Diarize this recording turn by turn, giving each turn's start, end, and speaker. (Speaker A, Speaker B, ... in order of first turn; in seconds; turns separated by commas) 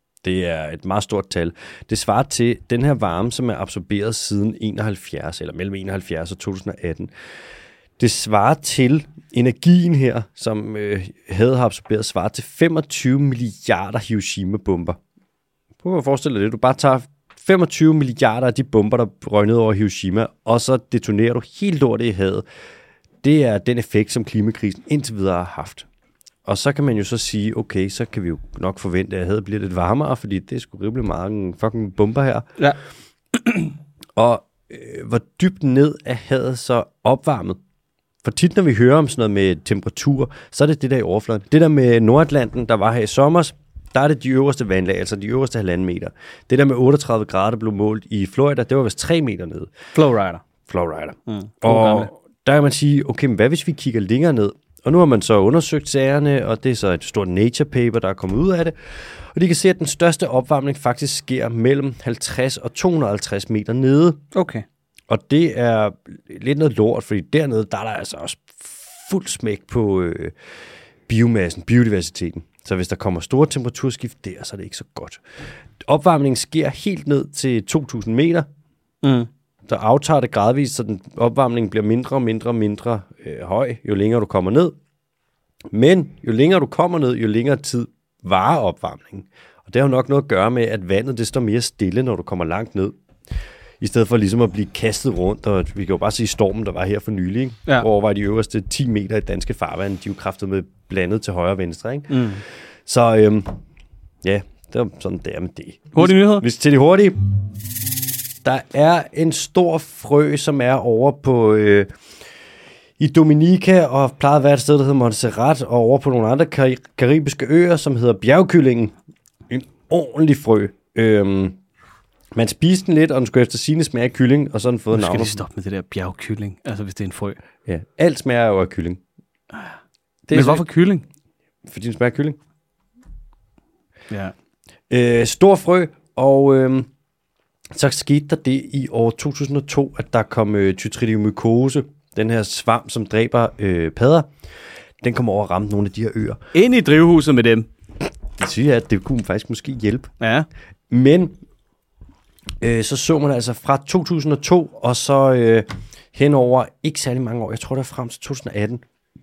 Speaker A: 0.2-7.1, Speaker A: 8.0-15.0, Speaker A: 15.8-22.4, Speaker A: 23.2-25.9, Speaker A: 26.4-32.5, Speaker B: 33.4-33.7, Speaker A: 34.2-37.6, Speaker A: 38.2-49.7, Speaker B: 49.9-50.4, Speaker A: 50.7-64.2, Speaker B: 51.3-52.1, Speaker B: 64.3-64.7, Speaker A: 65.1-70.3, Speaker A: 71.1-75.2, Speaker A: 75.8-78.5, Speaker B: 79.0-79.3, Speaker A: 79.7-84.7, Speaker A: 85.7-93.0, Speaker A: 93.8-103.6, Speaker B: 102.1-102.4, Speaker A: 104.2-107.2, Speaker B: 106.0-106.5, Speaker A: 108.4-111.9, Speaker A: 113.0-119.0, Speaker A: 119.5-121.6, Speaker A: 122.3-125.4, Speaker B: 124.9-127.4, Speaker A: 127.7-129.0, Speaker A: 130.3-130.7, Speaker B: 130.3-131.1, Speaker A: 131.7-132.4, Speaker A: 134.9-136.9, Speaker A: 137.7-144.3, Speaker A: 145.0-146.4, Speaker B: 146.5-147.7, Speaker A: 148.4-150.1, Speaker B: 150.2-150.5, Speaker A: 150.9-151.3, Speaker A: 152.6-158.8